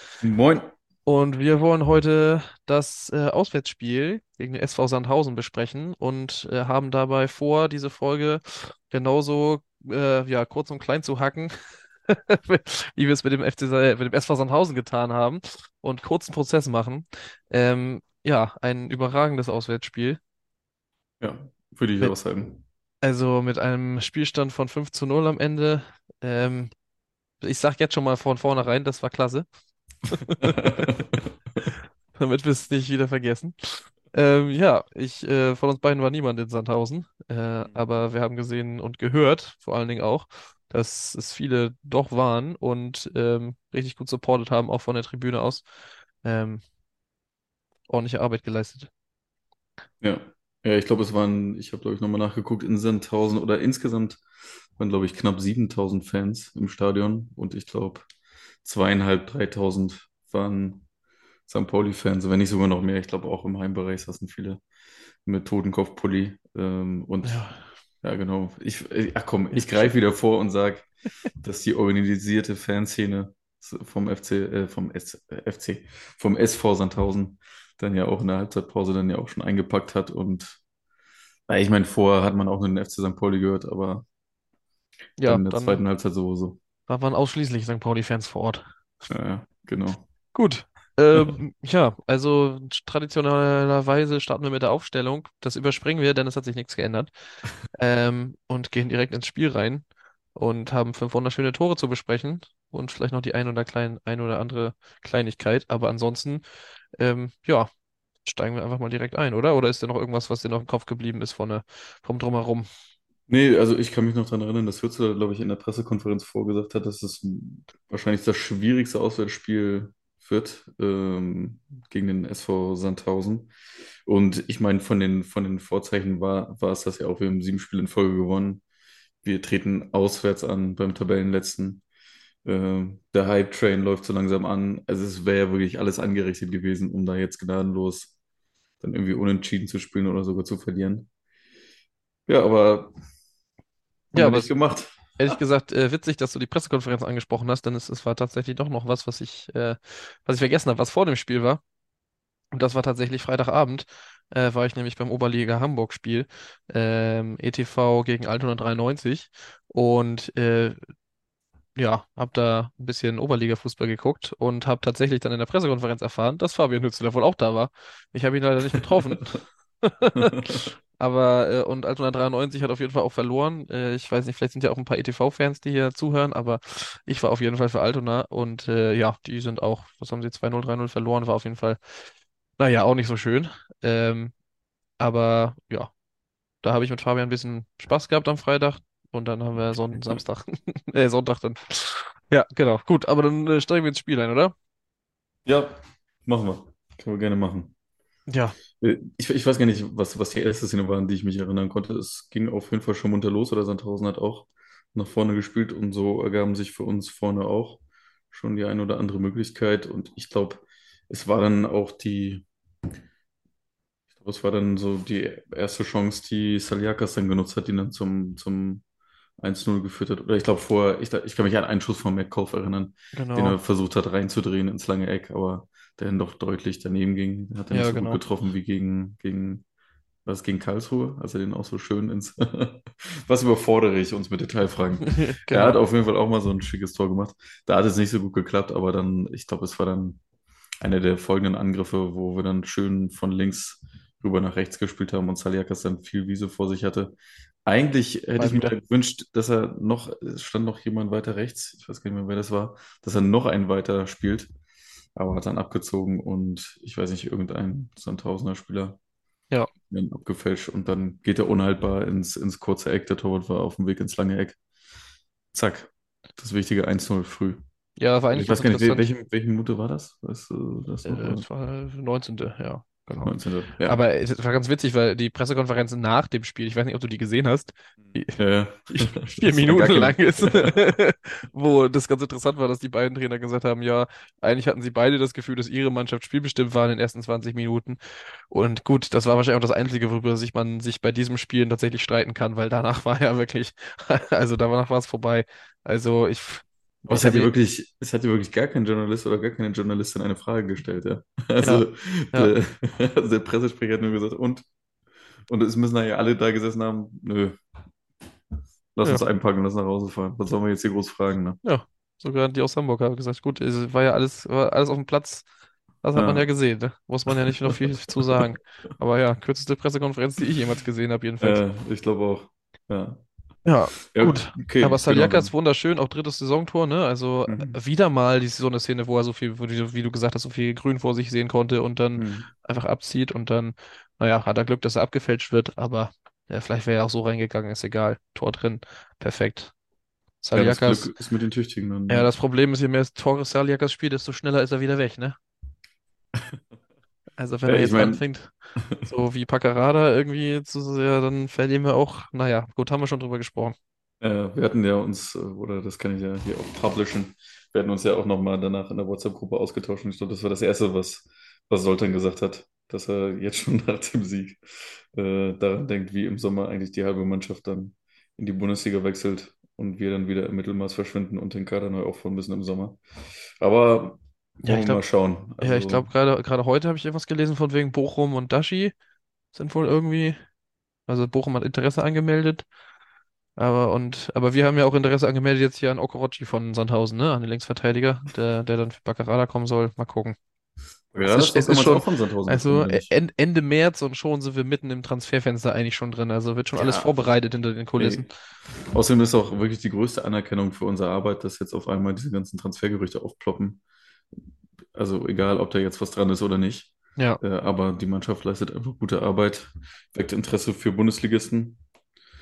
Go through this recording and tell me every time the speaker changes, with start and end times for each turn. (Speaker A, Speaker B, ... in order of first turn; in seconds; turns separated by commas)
Speaker A: 0.2-0.7, Speaker B: 1.1-11.5, Speaker B: 12.1-20.2, Speaker A: 21.2-22.6, Speaker B: 23.0-26.7, Speaker B: 27.4-29.5, Speaker B: 30.1-30.9, Speaker A: 30.4-31.2, Speaker B: 32.1-45.6, Speaker B: 46.2-46.6, Speaker B: 47.9-48.9, Speaker A: 50.0-54.2, Speaker A: 54.8-58.1, Speaker A: 58.6-60.8, Speaker A: 61.5-64.6, Speaker A: 65.2-67.4, Speaker B: 67.2-67.6, Speaker A: 68.0-70.9, Speaker A: 71.4-80.6, Speaker A: 81.5-84.0, Speaker B: 85.2-85.8, Speaker A: 85.2-86.6, Speaker B: 86.9-88.7, Speaker A: 89.1-90.0, Speaker B: 90.3-97.1, Speaker B: 97.7-106.4, Speaker B: 107.0-107.7, Speaker B: 108.2-112.7, Speaker A: 113.3-123.5, Speaker A: 124.0-128.6, Speaker A: 129.2-131.8, Speaker A: 132.4-138.1, Speaker A: 138.8-141.1, Speaker A: 142.3-142.9, Speaker A: 144.1-145.3, Speaker B: 144.1-144.5, Speaker B: 145.2-151.6, Speaker B: 152.5-160.8, Speaker B: 161.8-181.8, Speaker A: 170.1-170.7, Speaker B: 182.6-184.3, Speaker B: 185.0-185.9, Speaker B: 186.6-194.5, Speaker A: 189.9-190.2, Speaker A: 195.4-197.7, Speaker B: 198.3-198.6, Speaker A: 198.8-207.8, Speaker A: 208.3-212.4, Speaker A: 214.2-218.8, Speaker A: 219.4-229.6, Speaker B: 223.1-223.6, Speaker B: 227.7-228.2, Speaker A: 230.2-240.2, Speaker B: 235.1-235.8, Speaker A: 240.8-247.1, Speaker A: 247.7-254.5, Speaker B: 248.4-248.7, Speaker A: 255.2-259.0, Speaker A: 259.9-264.6, Speaker A: 265.5-267.6, Speaker B: 268.0-269.1, Speaker A: 268.3-271.4, Speaker B: 271.0-278.4, Speaker A: 273.2-274.0, Speaker A: 278.1-280.8, Speaker B: 278.9-297.5, Speaker A: 297.1-304.6, Speaker B: 301.6-302.5, Speaker A: 305.5-307.6, Speaker A: 308.9-311.6, Speaker B: 311.6-315.4, Speaker B: 316.0-321.6, Speaker A: 316.1-316.5, Speaker A: 318.2-318.5, Speaker A: 321.4-323.2, Speaker B: 323.6-339.7, Speaker A: 324.1-325.5, Speaker A: 327.5-327.7, Speaker A: 332.2-332.5, Speaker B: 340.4-341.1, Speaker A: 340.5-342.3, Speaker B: 342.1-345.4, Speaker B: 347.4-353.8, Speaker A: 347.6-348.2, Speaker A: 354.2-373.0, Speaker A: 373.6-376.1, Speaker B: 374.6-375.0, Speaker B: 375.6-378.9, Speaker B: 379.5-380.4, Speaker B: 381.1-382.6, Speaker B: 383.6-390.4, Speaker A: 391.1-393.1, Speaker B: 391.2-398.3, Speaker A: 396.7-397.1, Speaker A: 398.0-398.2, Speaker A: 398.9-403.8, Speaker A: 404.9-411.8